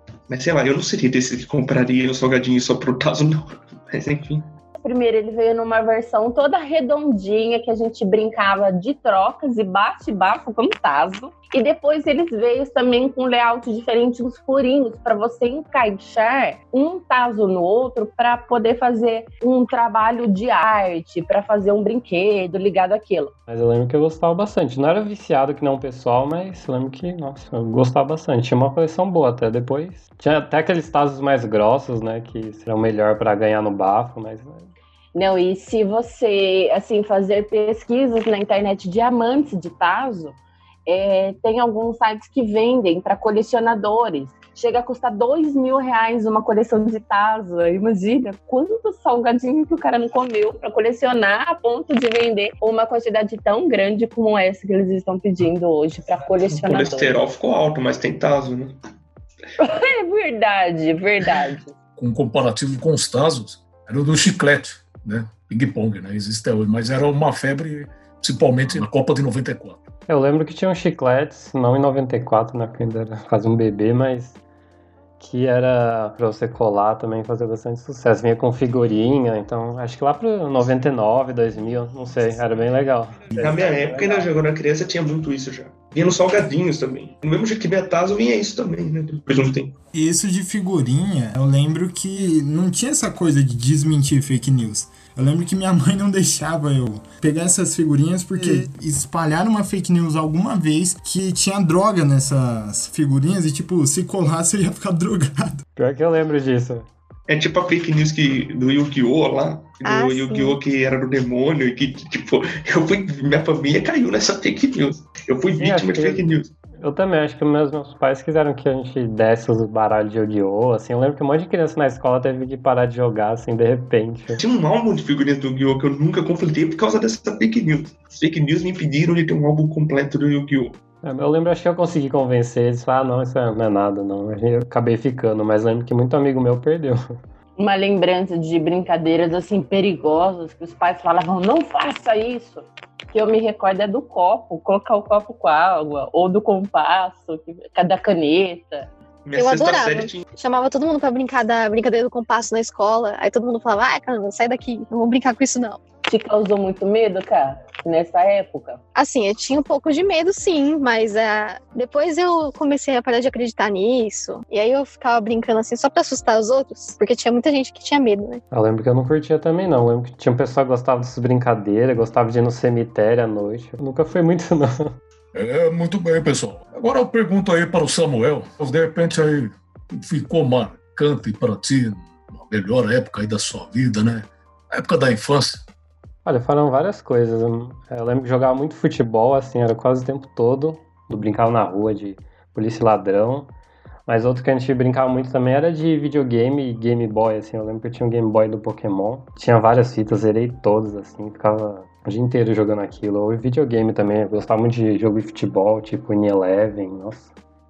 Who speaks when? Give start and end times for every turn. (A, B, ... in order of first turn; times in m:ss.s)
0:00.3-0:04.5 A
0:04.8-0:23.3 B
0:23.5-0:34.7 C
0:35.1-0:57.2 B
0:56.4-0:58.7 A
0:59.6-1:01.7 B
1:02.0-1:09.8 D
1:10.1-1:14.4 C
1:15.2-1:23.3 C
1:23.3-1:23.6 E
1:23.4-1:29.7 A
1:23.9-1:24.2 C
1:29.9-1:45.6 E
1:45.8-1:46.9 C
1:47.3-1:56.5 A
1:49.8-1:50.6 F
1:55.6-1:56.2 C
1:56.8-2:04.4 C
2:04.4-2:10.8 A
2:11.0-2:17.0 C
2:17.6-2:28.9 B
2:29.2-2:30.2 A
2:29.3-2:35.8 F
2:36.1-2:38.8 B
2:38.9-2:48.4 F
2:48.5-2:54.9 C
2:55.3-3:05.6 D
3:06.2-3:13.5 C
3:14.1-3:27.3 C